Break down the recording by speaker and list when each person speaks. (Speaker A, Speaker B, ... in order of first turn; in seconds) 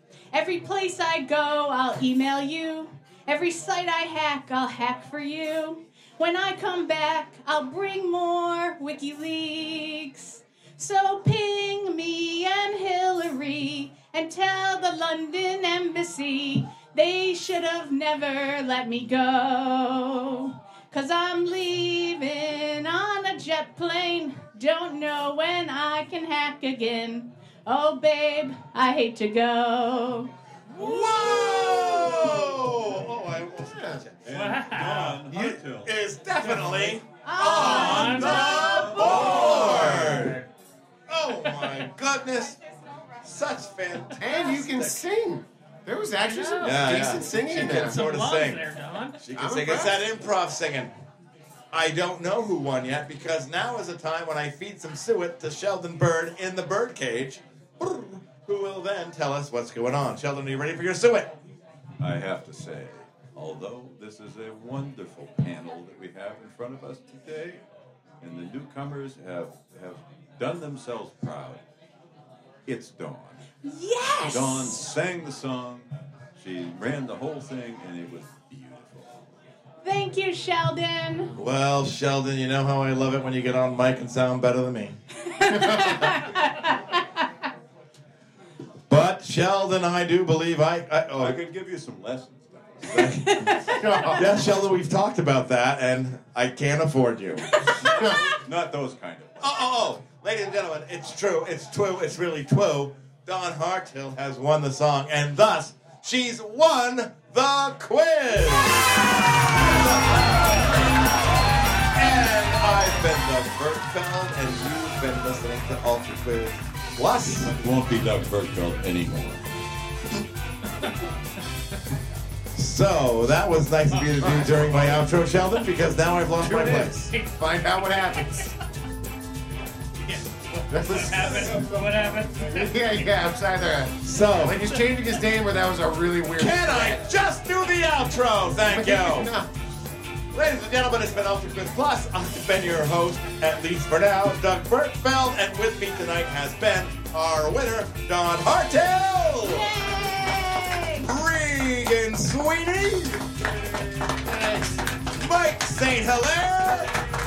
Speaker A: 0.3-30.3, 30.8-31.4, 37.2-39.7, 73.6-74.8, 79.8-81.3, 85.2-87.3, 92.9-94.2, 97.5-98.4, 149.4-151.1
Speaker B: 30.8-34.5, 35.3-40.4, 41.1-42.6, 43.2-45.0, 46.6-48.6, 49.2-50.9, 51.7-61.3, 81.3-85.0, 88.9-91.4, 94.1-97.6, 99.4-110.8, 111.9-117.5, 122.5-127.1, 134.0-134.6, 136.4-139.3, 140.3-149.7, 151.1-153.4, 154.1-156.9
Speaker C: 30.8-32.8, 33.7-34.0, 38.5-40.3, 44.1-48.0, 49.3-50.1, 93.6-94.3, 97.9-98.3, 124.2-125.1, 126.5-128.5, 130.7-131.8, 132.4-137.0, 138.6-139.5
Speaker D: 34.2-35.9, 38.6-40.2, 62.0-67.6, 68.2-71.6, 72.7-73.4, 74.2-79.1, 91.2-93.6, 97.8-99.4, 117.5-119.5
Speaker E: 34.3-35.2, 36.4-37.0, 37.5-40.5, 46.3-49.2, 126.4-127.3, 128.2-128.4, 130.1-133.0